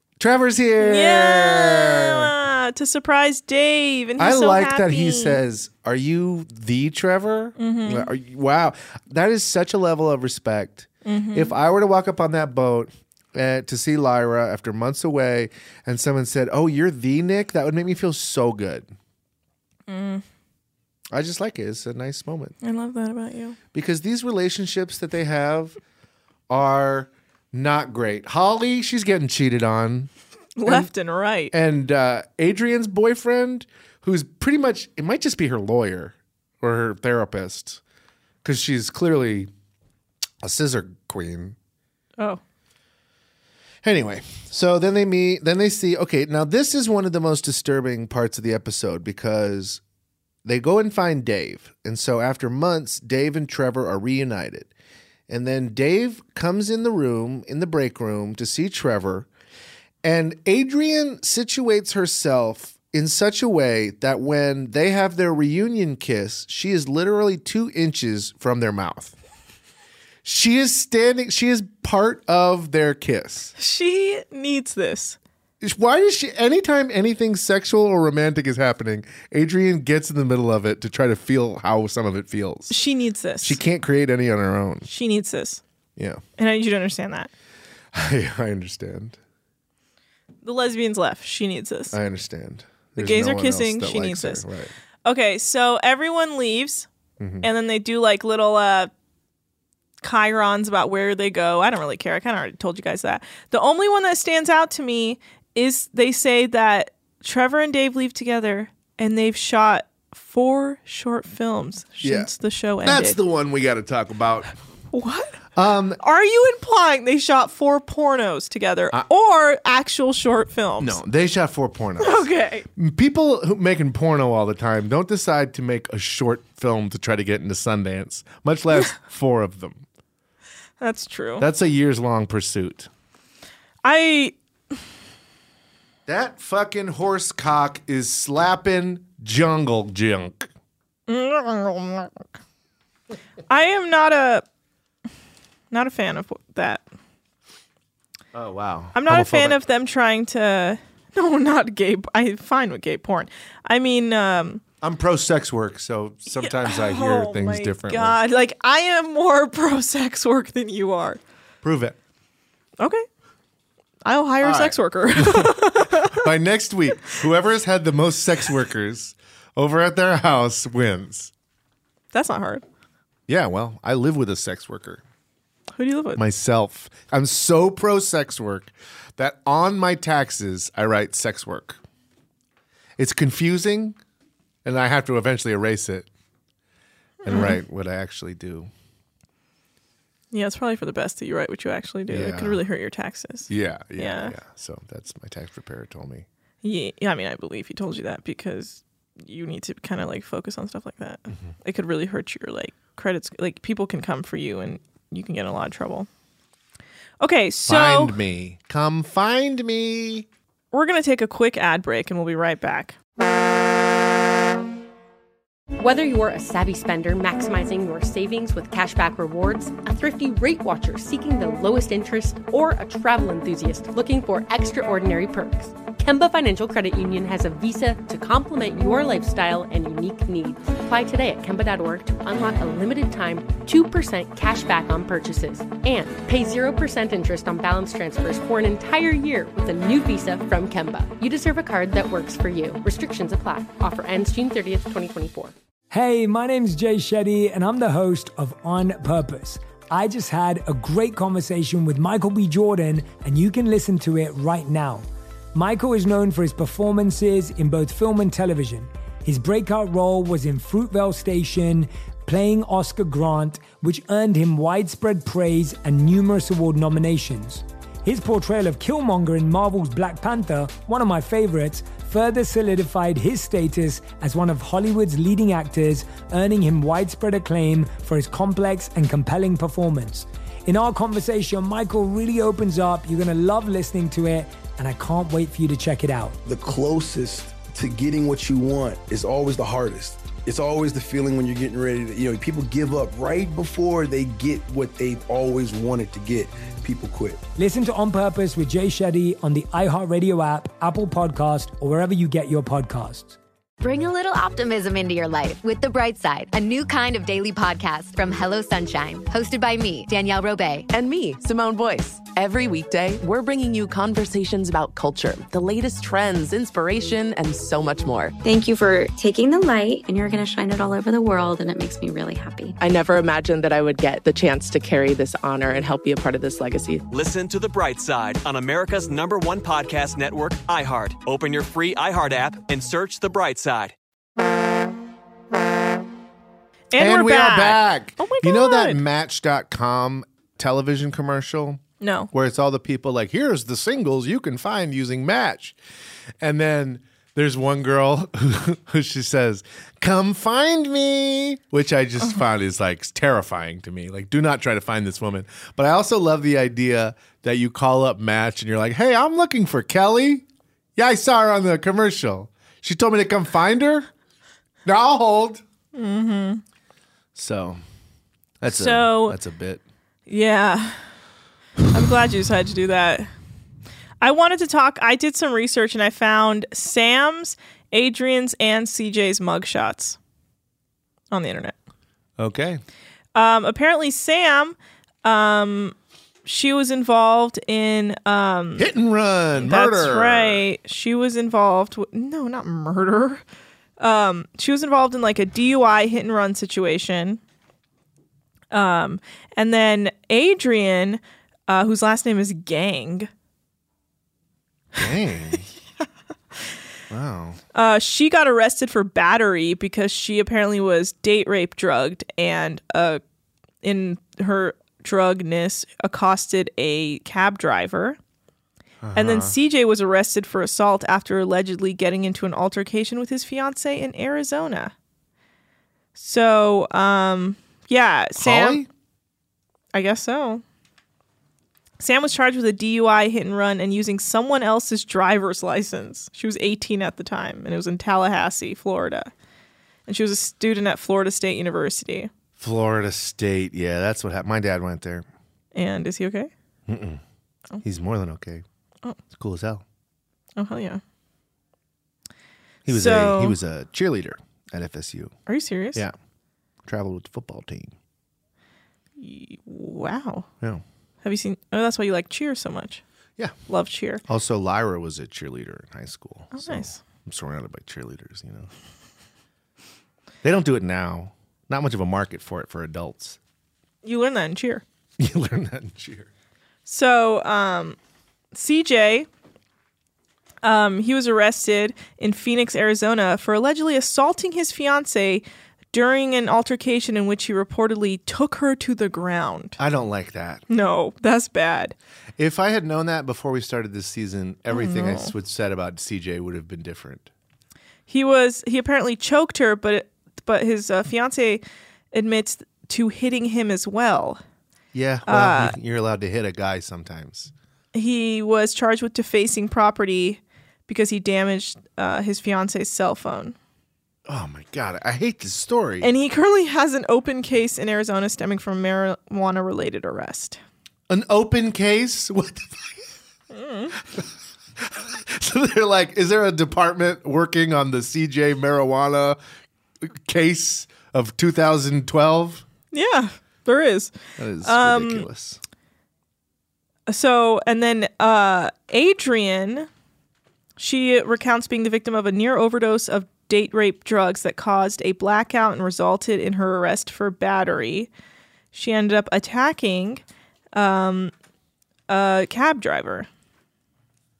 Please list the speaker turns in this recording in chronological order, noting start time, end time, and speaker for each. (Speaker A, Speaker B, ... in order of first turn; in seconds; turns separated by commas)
Speaker A: 0.2-2.3, Speaker B: 0.8-5.4, Speaker A: 4.2-18.9, Speaker B: 7.6-8.1, Speaker B: 11.0-11.6, Speaker B: 19.9-20.2, Speaker A: 21.1-22.5, Speaker B: 22.6-23.6, Speaker A: 23.7-25.8, Speaker A: 26.5-30.1, Speaker B: 30.6-31.5, Speaker A: 30.6-30.9, Speaker A: 31.5-37.8, Speaker A: 38.4-39.5, Speaker A: 40.4-41.5, Speaker A: 43.8-49.8, Speaker A: 50.4-54.7, Speaker A: 55.3-59.3, Speaker A: 60.0-69.2, Speaker A: 70.2-73.5, Speaker B: 73.5-75.2, Speaker A: 75.6-82.8, Speaker B: 82.7-83.6, Speaker A: 83.4-84.9, Speaker B: 84.8-85.6, Speaker A: 86.0-86.2, Speaker B: 86.4-87.3, Speaker A: 87.9-89.2, Speaker B: 90.4-92.0, Speaker A: 91.9-94.7, Speaker B: 93.0-94.4, Speaker B: 95.0-96.9, Speaker A: 97.2-97.5, Speaker B: 97.4-98.9, Speaker B: 100.0-113.2, Speaker A: 112.0-112.3, Speaker A: 112.8-114.5, Speaker B: 114.9-115.4, Speaker A: 115.5-116.0, Speaker B: 116.0-121.0, Speaker A: 120.8-129.8, Speaker B: 122.0-122.7, Speaker B: 130.8-131.5, Speaker A: 131.4-132.9, Speaker B: 133.8-134.3, Speaker A: 136.1-140.5, Speaker B: 141.1-142.2, Speaker B: 143.5-144.4, Speaker B: 145.7-146.8, Speaker A: 148.3-149.6, Speaker B: 148.9-154.6, Speaker A: 154.8-158.2, Speaker B: 156.4-161.2, Speaker A: 161.6-162.0, Speaker B: 162.8-163.1, Speaker B: 164.0-166.2, Speaker A: 164.4-171.3, Speaker B: 172.1-172.6, Speaker A: 173.3-175.0, Speaker B: 175.8-176.2, Speaker A: 176.2-181.8, Speaker A: 183.0-184.0, Speaker A: 184.6-186.1, Speaker B: 187.2-187.6, Speaker A: 187.2-188.7, Speaker B: 190.3-194.4, Speaker A: 192.1-192.6, Speaker A: 193.5-196.2, Speaker B: 196.6-206.1, Speaker B: 207.2-208.2, Speaker A: 207.7-210.3, Speaker B: 210.7-212.9, Speaker C: 215.8-245.5, Speaker D: 245.9-286.4, Speaker E: 286.4-297.4, Speaker D: 297.6-303.4, Speaker F: 303.8-310.9, Speaker G: 310.9-318.3, Speaker H: 318.4-322.8, Speaker G: 322.8-327.0, Speaker I: 327.1-333.9, Speaker B: 336.9-339.0, Speaker A: 336.9-341.8, Speaker B: 342.0-342.3, Speaker A: 342.3-345.8, Speaker A: 346.4-360.4, Speaker A: 360.9-364.1, Speaker A: 364.8-365.6, Speaker B: 365.9-366.6, Speaker A: 367.3-367.8, Speaker A: 368.6-369.8, Speaker B: 368.7-369.4, Speaker B: 370.3-371.0, Speaker B: 371.9-373.3, Speaker B: 374.2-380.2, Speaker B: 381.3-381.7, Speaker A: 382.4-382.8, Speaker B: 383.3-385.9, Speaker B: 386.4-388.9, Speaker A: 388.8-390.6, Speaker B: 389.6-393.4, Speaker B: 394.0-397.4, Speaker B: 398.7-403.3, Speaker A: 404.9-405.7, Speaker A: 407.1-407.6, Speaker B: 407.7-413.2, Speaker B: 413.8-418.2, Speaker A: 419.0-419.6, Speaker B: 419.1-424.9, Speaker B: 426.1-428.8, Speaker A: 428.4-428.9, Speaker B: 429.9-430.6, Speaker B: 432.0-439.3, Speaker B: 440.1-442.3, Speaker A: 442.6-445.3, Speaker B: 445.7-446.5, Speaker A: 446.9-447.2, Speaker A: 447.8-448.6, Speaker A: 449.3-449.8, Speaker B: 450.6-451.0, Speaker A: 452.9-455.3, Speaker B: 452.9-453.6, Speaker B: 455.5-456.0, Speaker A: 456.8-457.9, Speaker B: 459.2-460.5, Speaker B: 461.2-463.0, Speaker B: 463.7-464.2, Speaker A: 464.2-468.7, Speaker B: 466.5-467.0, Speaker A: 470.4-473.4, Speaker B: 474.0-474.8, Speaker A: 475.2-476.3, Speaker B: 476.9-478.0, Speaker B: 478.5-479.3, Speaker B: 480.6-489.8, Speaker A: 489.8-490.6, Speaker B: 490.7-491.9, Speaker A: 492.4-497.3, Speaker B: 494.7-495.3, Speaker B: 498.1-501.6, Speaker B: 502.1-504.4, Speaker A: 504.9-507.5, Speaker B: 505.2-505.7, Speaker B: 507.9-513.5, Speaker A: 514.2-516.1, Speaker B: 516.0-520.6, Speaker A: 521.1-523.0, Speaker B: 523.5-523.9, Speaker A: 524.0-529.4, Speaker A: 530.0-532.6, Speaker B: 532.9-535.3, Speaker A: 534.4-535.6, Speaker B: 537.1-539.9, Speaker B: 540.8-548.1, Speaker B: 548.7-550.2, Speaker B: 550.7-551.3, Speaker B: 552.1-553.3